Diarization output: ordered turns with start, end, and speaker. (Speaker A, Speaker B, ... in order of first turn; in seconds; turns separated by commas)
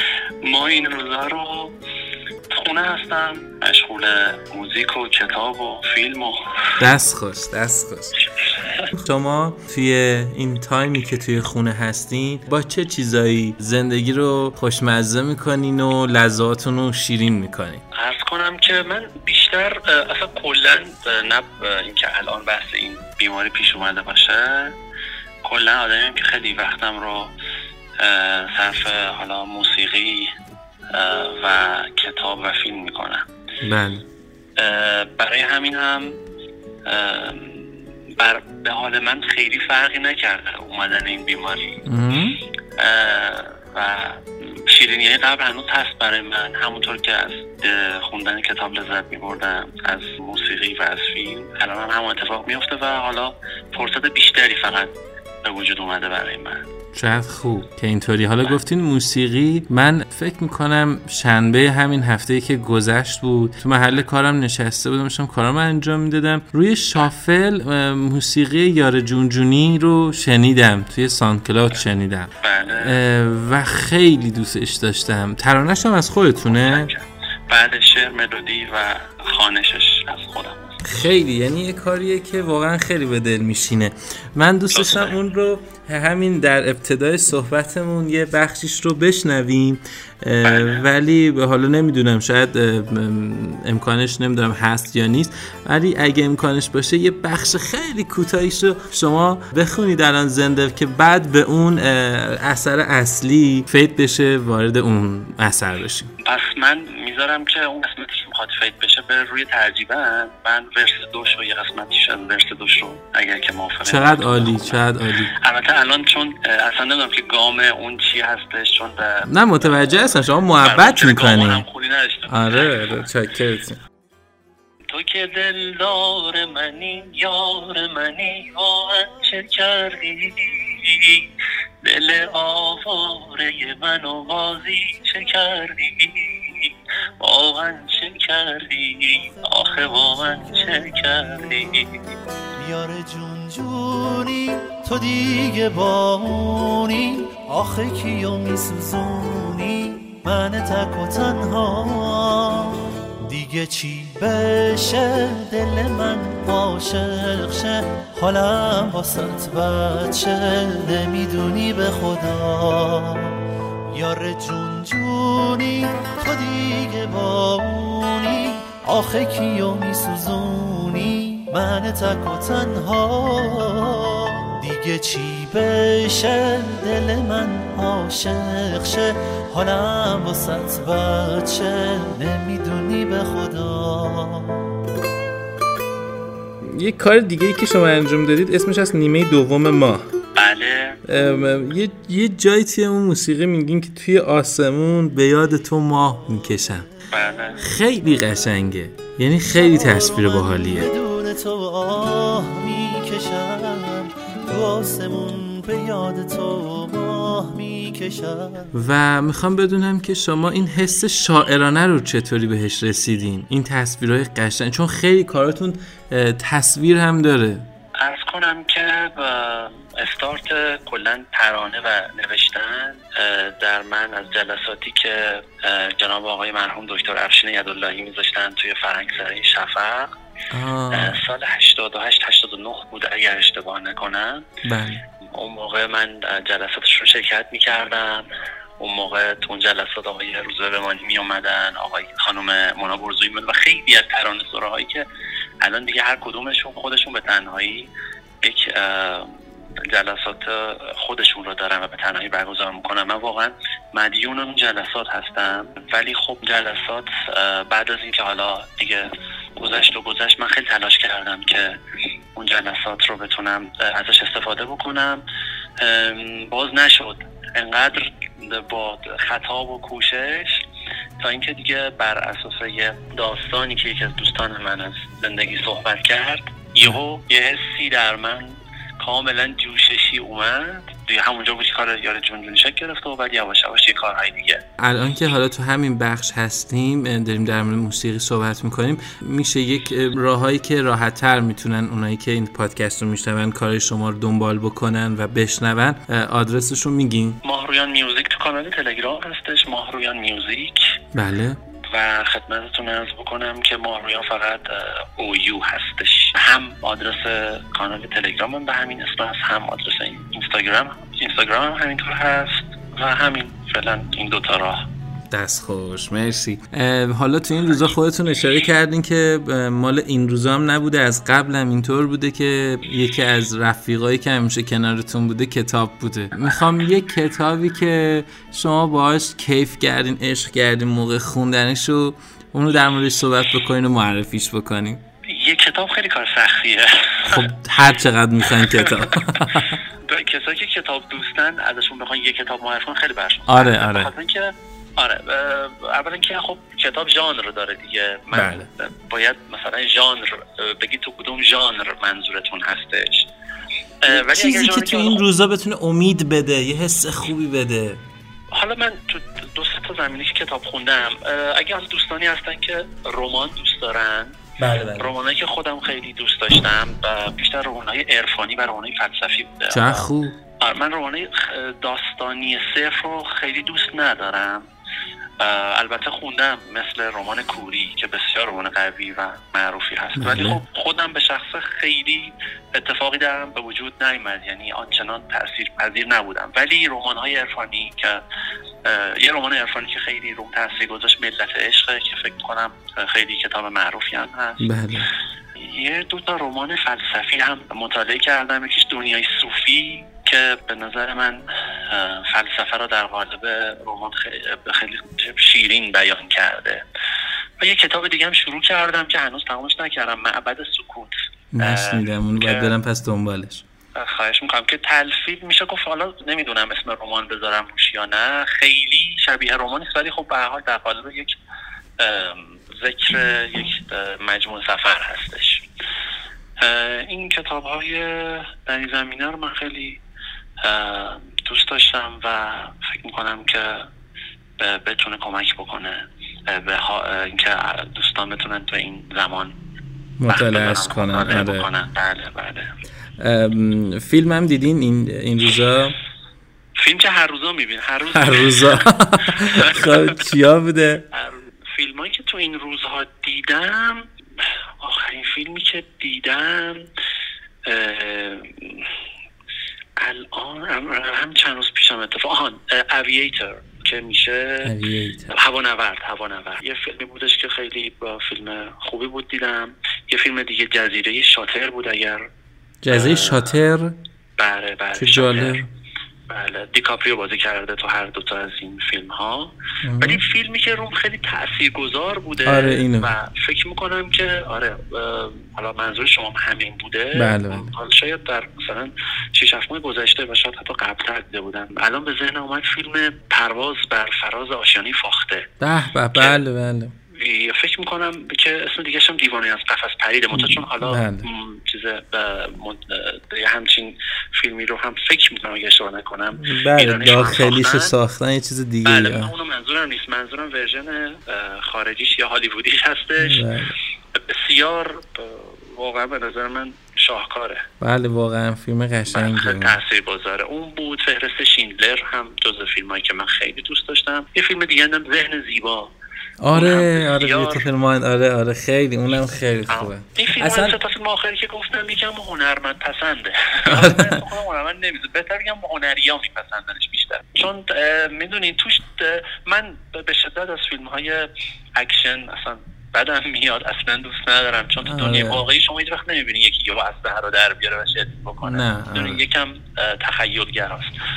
Speaker A: 0.4-1.7, Speaker A: 2.5-6.4, Speaker B: 6.8-8.2, Speaker B: 8.9-17.8, Speaker A: 17.9-24.8, Speaker A: 25.4-27.3, Speaker A: 28.0-30.3, Speaker A: 30.9-33.2, Speaker B: 33.6-34.0, Speaker A: 34.6-36.1, Speaker A: 36.9-41.8, Speaker B: 41.9-42.4, Speaker A: 42.8-54.9, Speaker A: 55.5-56.6, Speaker B: 56.9-76.9, Speaker A: 72.4-73.0, Speaker A: 76.5-80.8, Speaker B: 80.8-106.1, Speaker A: 84.7-85.2, Speaker A: 90.4-90.8, Speaker A: 106.2-114.8, Speaker B: 113.9-115.3, Speaker A: 115.4-119.7, Speaker B: 119.3-121.6, Speaker A: 120.6-123.1, Speaker B: 122.3-123.8, Speaker A: 124.9-131.3, Speaker A: 131.8-142.2, Speaker C: 140.6-140.9, Speaker C: 142.6-184.7, Speaker B: 186.7-190.1, Speaker A: 190.3-191.0, Speaker B: 191.1-196.9, Speaker A: 197.1-197.6, Speaker B: 197.6-200.9, Speaker C: 199.6-208.7, Speaker B: 208.7-217.7, Speaker A: 218.0-230.1, Speaker B: 230.5-231.2, Speaker A: 230.9-234.5, Speaker B: 234.7-235.0, Speaker A: 235.3-238.2, Speaker A: 238.8-245.1, Speaker A: 245.6-247.9, Speaker A: 248.4-249.3, Speaker A: 249.9-261.8, Speaker A: 262.4-265.2, Speaker A: 265.8-270.6, Speaker A: 271.2-284.6, Speaker B: 284.8-297.4, Speaker A: 297.4-300.8, Speaker B: 301.1-301.6, Speaker A: 301.9-314.9, Speaker B: 315.3-335.0, Speaker A: 326.4-326.7, Speaker A: 335.3-337.5, Speaker B: 337.3-339.8, Speaker A: 338.4-339.0, Speaker A: 340.0-353.3, Speaker B: 343.5-344.1, Speaker B: 348.3-348.7, Speaker A: 354.0-355.2, Speaker B: 354.1-358.0, Speaker A: 358.5-364.4, Speaker B: 364.6-365.1, Speaker A: 365.0-370.1, Speaker B: 369.7-370.4, Speaker A: 370.6-374.6, Speaker A: 375.4-388.2, Speaker B: 380.2-380.6, Speaker A: 388.9-394.6, Speaker B: 394.6-395.1, Speaker A: 395.6-406.8, Speaker A: 407.6-412.7, Speaker B: 411.5-413.6, Speaker A: 414.0-421.4, Speaker A: 422.0-425.6, Speaker A: 426.6-430.0, Speaker A: 430.6-433.9, Speaker A: 434.6-439.5, Speaker B: 440.2-441.7, Speaker A: 440.3-442.7, Speaker B: 443.2-446.0, Speaker A: 446.8-448.9, Speaker B: 448.1-451.0, Speaker A: 449.5-450.2, Speaker A: 451.1-456.9, Speaker A: 457.7-458.9, Speaker A: 460.0-464.7, Speaker B: 464.6-465.3, Speaker A: 465.3-472.2, Speaker B: 472.8-473.9, Speaker A: 472.9-473.6, Speaker A: 474.4-475.6, Speaker B: 475.0-475.7, Speaker A: 476.3-495.5, Speaker B: 479.9-480.2, Speaker B: 482.4-483.1, Speaker B: 487.2-487.7, Speaker B: 495.6-496.9, Speaker A: 496.1-496.4, Speaker A: 497.1-507.9, Speaker B: 500.3-501.3, Speaker B: 506.4-509.3, Speaker A: 508.9-513.5, Speaker B: 513.2-513.7, Speaker A: 514.1-517.6, Speaker B: 517.8-519.8, Speaker A: 519.1-525.9, Speaker B: 526.4-530.8, Speaker A: 526.5-527.7, Speaker A: 529.7-550.9, Speaker B: 533.7-534.2, Speaker B: 544.8-545.4, Speaker B: 548.4-549.2